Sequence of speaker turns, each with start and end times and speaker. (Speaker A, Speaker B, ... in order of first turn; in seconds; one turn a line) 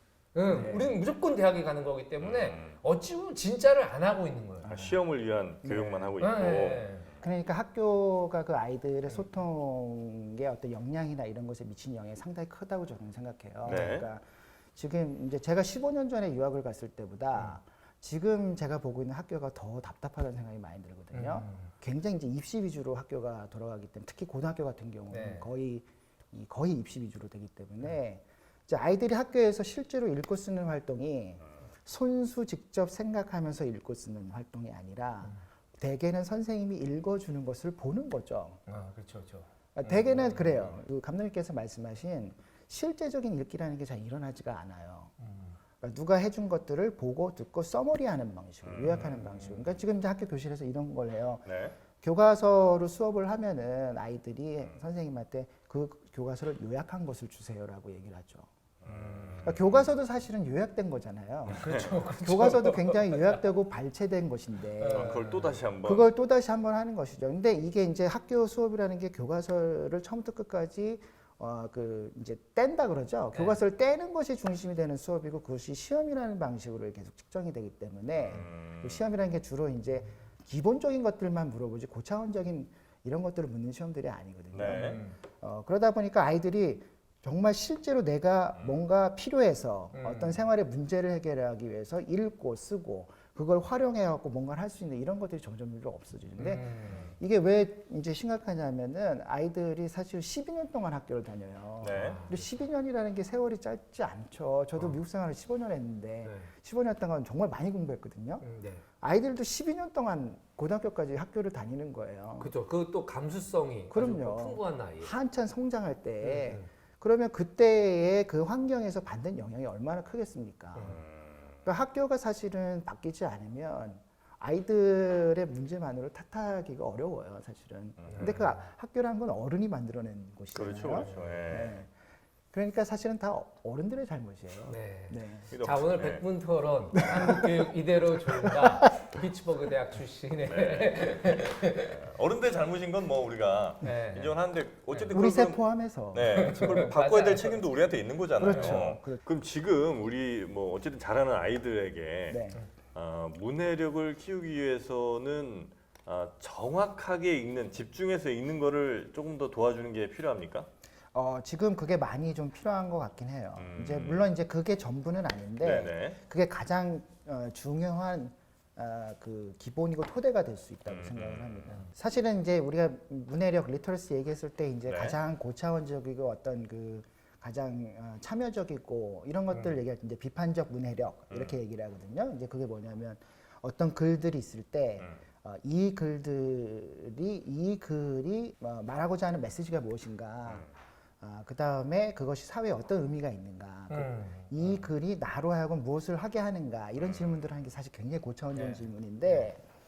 Speaker A: 0.3-4.8
Speaker B: 0.5-1.0
Speaker C: 2.2-2.8
Speaker B: 4.6-5.0
Speaker C: 4.7-7.0
Speaker B: 5.6-6.2
Speaker A: 6.2-7.1
Speaker B: 7.2-38.6
Speaker A: 13.7-13.9
Speaker C: 13.7-14.1
Speaker A: 21.1-21.7
Speaker A: 25.1-25.5
Speaker A: 38.7-40.7
Speaker B: 39.8-45.1
Speaker A: 45.2-45.6
Speaker B: 45.8-58.5
Speaker C: 48.6-49.1
Speaker A: 48.8-49.6
Speaker C: 51.5-51.8
Speaker C: 58.8-59.9
Speaker A: 58.9-59.5
Speaker B: 59.4-61.7
Speaker C: 61.5-62.0
Speaker A: 61.5-63.4
Speaker B: 62.2-65.2
Speaker A: 64.8-65.6
Speaker C: 64.9-66.1
Speaker B: 65.8-108.4
Speaker A: 73.3-73.6
Speaker C: 78.2-79.0
Speaker C: 84.5-85.0
Speaker A: 84.6-85.2
Speaker C: 88.6-88.8
Speaker A: 89.9-90.4
Speaker A: 96.4-97.1
Speaker C: 101.8-102.2
Speaker A: 101.9-102.6
Speaker A: 106.2-106.5
Speaker A: 108.4-108.8
Speaker B: 109.0-112.5
Speaker A: 112.4-115.1
Speaker B: 113.9-121.0
Speaker A: 116.2-116.7
Speaker A: 120.8-121.0
Speaker C: 120.8-121.6
Speaker B: 121.6-131.9
Speaker C: 128.0-128.4
Speaker A: 128.1-128.6
Speaker C: 130.6-131.8
Speaker A: 131.0-131.2
Speaker B: 132.5-135.5
Speaker A: 134.7-142.0
Speaker C: 135.5-136.3
Speaker B: 137.0-137.6
Speaker C: 140.4-152.4
Speaker A: 143.8-144.3
Speaker B: 145.1-146.8
Speaker A: 146.2-147.7
Speaker B: 148.4-149.2
Speaker A: 148.5-148.9
Speaker B: 152.3-152.6
Speaker C: 152.9-160.7
Speaker B: 161.1-190.7
Speaker C: 163.6-164.3
Speaker C: 165.6-166.2
Speaker C: 170.9-171.8
Speaker C: 174.9-175.2
Speaker A: 179.5-179.8
Speaker C: 181.3-181.6
Speaker B: 191.2-199.6
Speaker A: 193.9-194.6
Speaker C: 197.0-197.3
Speaker A: 198.5-199.5